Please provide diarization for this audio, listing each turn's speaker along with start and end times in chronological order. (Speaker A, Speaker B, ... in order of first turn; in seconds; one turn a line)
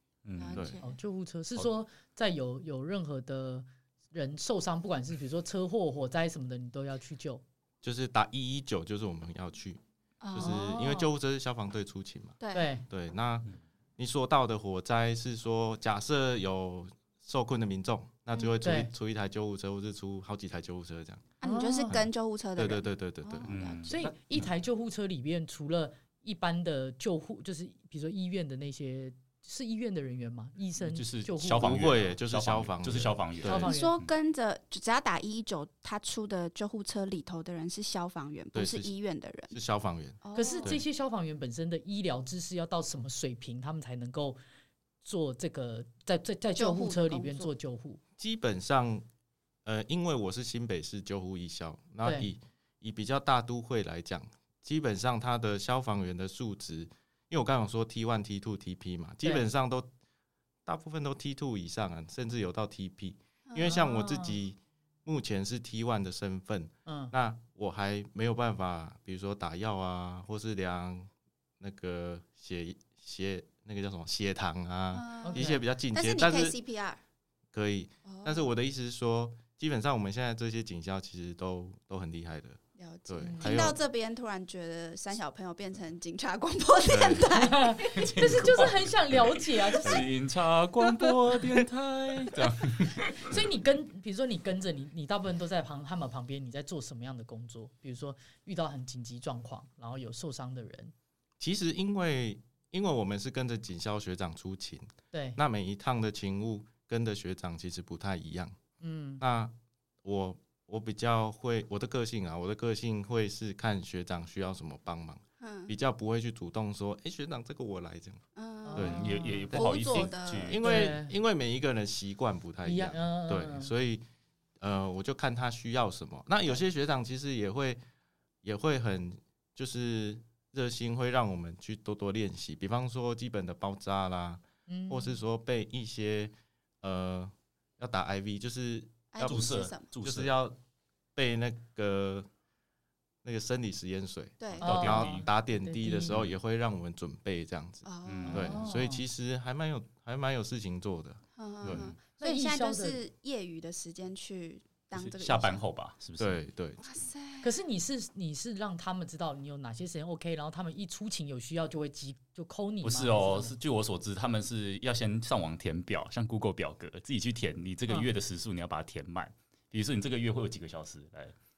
Speaker A: 0.2-0.7
Speaker B: 0.4-1.0
Speaker C: 0.5-0.8
Speaker D: 0.8-7.4
Speaker C: 7.8-9.8
Speaker B: 10.2-10.6
Speaker C: 10.3-12.3
Speaker D: 10.3-11.1
Speaker B: 12.4-12.7
Speaker D: 12.5-12.8
Speaker C: 12.9-13.5
Speaker C: 14.0-21.2
Speaker D: 18.6-18.9
Speaker B: 21.4-23.9
Speaker D: 21.4-21.9
Speaker C: 22.6-23.5
Speaker A: 23.5-24.5
Speaker D: 23.9-31.8
Speaker A: 30.8-34.1
Speaker C: 31.6-33.7
Speaker D: 33.4-33.9
Speaker B: 33.6-39.5
Speaker C: 38.5-38.9
Speaker C: 39.5-40.8
Speaker B: 40.2-40.7
Speaker D: 40.3-44.4
Speaker D: 45.0-48.0
Speaker B: 46.5-47.5
Speaker C: 48.2-49.0
Speaker C: 49.6-59.9
Speaker C: 60.6-76.5
Speaker B: 63.5-63.8
Speaker D: 63.6-64.4
Speaker D: 66.8-67.1
Speaker B: 74.9-77.0
Speaker D: 75.2-75.6
Speaker C: 77.5-83.8
Speaker B: 78.0-78.5
Speaker B: 82.8-88.1
Speaker D: 83.2-83.6
Speaker C: 86.9-87.3
Speaker D: 87.3-90.1
Speaker A: 87.9-93.4
Speaker D: 93.2-100.9
Speaker C: 101.4-108.6
Speaker D: 105.1-105.4
Speaker D: 108.8-109.2
Speaker C: 109.2-109.5
Speaker C: 110.0-118.2
Speaker B: 115.4-115.7
Speaker B: 118.3-120.6
Speaker D: 118.7-119.5
Speaker C: 118.7-124.0
Speaker A: 118.8-120.6
Speaker D: 120.6-121.1
Speaker D: 122.6-123.7
Speaker C: 124.6-127.8
Speaker C: 128.4-139.4
Speaker D: 134.7-135.2
Speaker B: 139.1-139.8
Speaker A: 139.2-140.3
Speaker C: 140.0-140.6
Speaker C: 141.2-142.3
Speaker C: 143.2-151.9
Speaker B: 144.4-144.7
Speaker A: 144.6-145.2
Speaker D: 144.6-146.2
Speaker B: 147.8-148.6
Speaker A: 148.0-148.6
Speaker D: 148.3-149.0
Speaker B: 151.4-155.6
Speaker A: 151.6-151.9
Speaker D: 152.2-153.0
Speaker A: 154.9-156.4
Speaker C: 156.2-156.8
Speaker B: 156.8-157.5
Speaker D: 157.4-163.5
Speaker A: 162.8-171.3